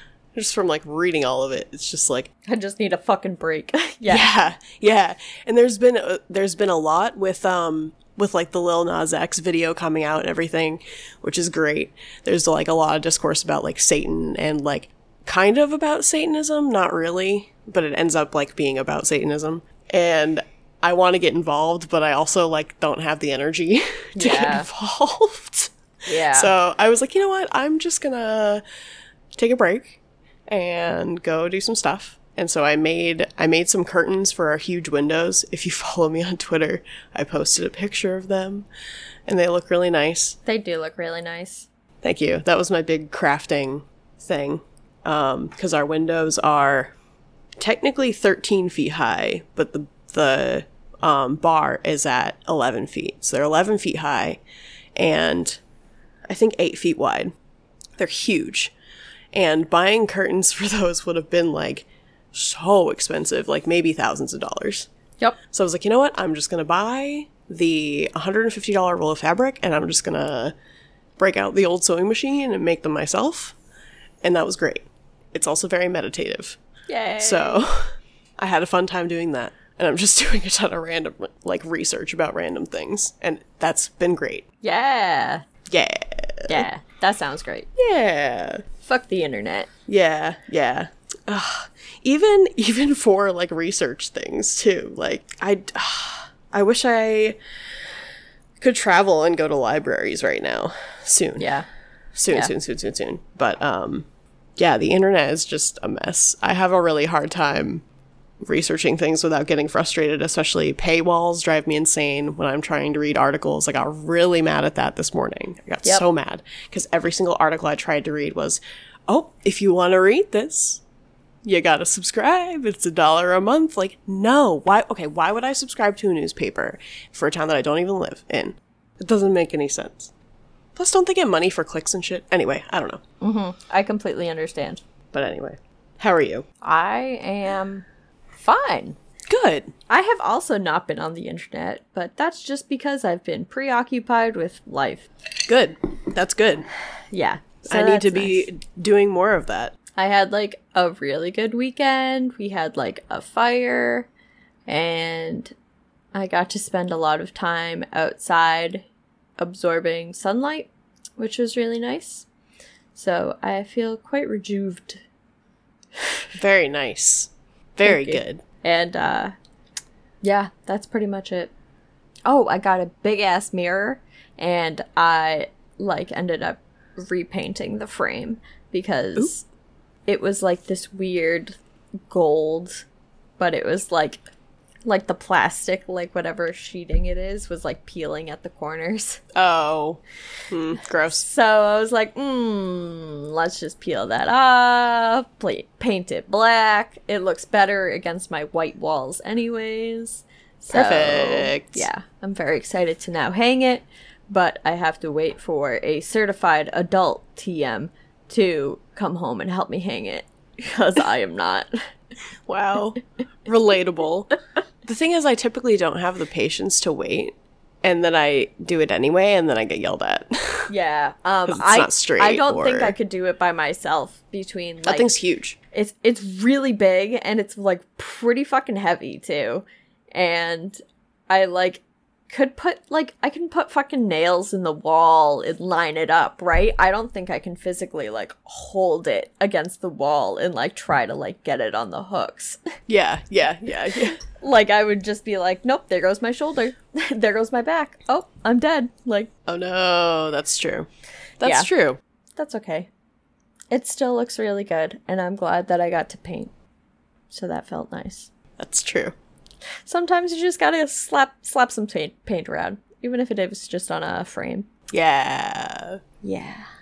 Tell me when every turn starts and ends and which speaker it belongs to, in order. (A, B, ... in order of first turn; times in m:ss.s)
0:00.3-0:02.3 A
0:02.4-0:04.3 B
0:04.0-0:28.6 A
0:24.2-0:24.7 B
0:26.0-0:26.5 B
0:29.4-0:38.7 A
0:39.3-0:40.4 A
0:40.4-0:41.7 B
0:42.0-0:46.9 A
0:47.6-0:54.4 A
0:55.0-0:55.6 A
0:56.3-0:57.3 A
0:58.0-0:58.7 A
0:59.3-1:04.9 A
1:05.5-1:10.5 A
1:11.2-1:13.6 A
1:14.2-1:16.6 A
1:16.9-1:17.6 B
1:17.2-1:24.4 A
1:24.6-1:25.4 B
1:25.7-1:26.7 A
1:26.5-1:27.7 B
1:27.8-1:28.6 A
1:28.8-1:29.7 B
1:29.9-1:37.4 A
1:38.6-1:41.5 A
1:41.4-1:41.7 B
1:42.1-1:44.0 A
1:44.6-1:47.8 A
1:48.4-2:00.8 A
2:01.4-2:10.1 A
2:10.7-2:13.0 A
2:13.2-2:14.8 B
2:15.1-2:16.4 A
2:16.6-2:17.8 B
2:18.4-2:19.0 B
2:19.3-2:19.7 A
2:19.9-2:25.1 B
2:25.5-2:26.7 A
2:27.1-2:28.5 B
2:27.6-2:29.7 A
2:30.0-2:34.1 B
2:34.6-2:35.5 B
2:36.1-2:38.8 B
2:39.4-2:42.3 B
2:42.9-2:45.0 B
2:46.4-2:48.4 A
2:47.8-2:49.3 B
2:50.2-2:51.5 B
2:52.3-2:59.4 B
3:00.0-3:02.8 B
3:03.4-3:04.2 B
3:04.8-3:09.2 B
3:09.3-3:11.2 A
3:11.1-3:31.7 B
3:20.7-3:21.9 A
3:32.5-3:34.3 A
3:34.8-3:40.7 A
3:40.7-3:45.2 B
3:41.5-3:43.0 A
3:44.8-3:45.6 A
3:45.7-3:50.8 B
3:51.3-4:02.6 B
4:02.9-4:04.2 A
4:04.3-4:09.3 B
4:09.5-4:10.9 A
4:11.4-4:12.0 A
4:11.4-4:11.7 B
4:12.4-4:12.9 B
4:13.7-4:16.5 B
4:17.3-4:18.3 B
4:18.6-4:19.1 A
4:19.8-4:24.7 B
4:24.9-4:26.0 A
4:26.2-4:26.6 B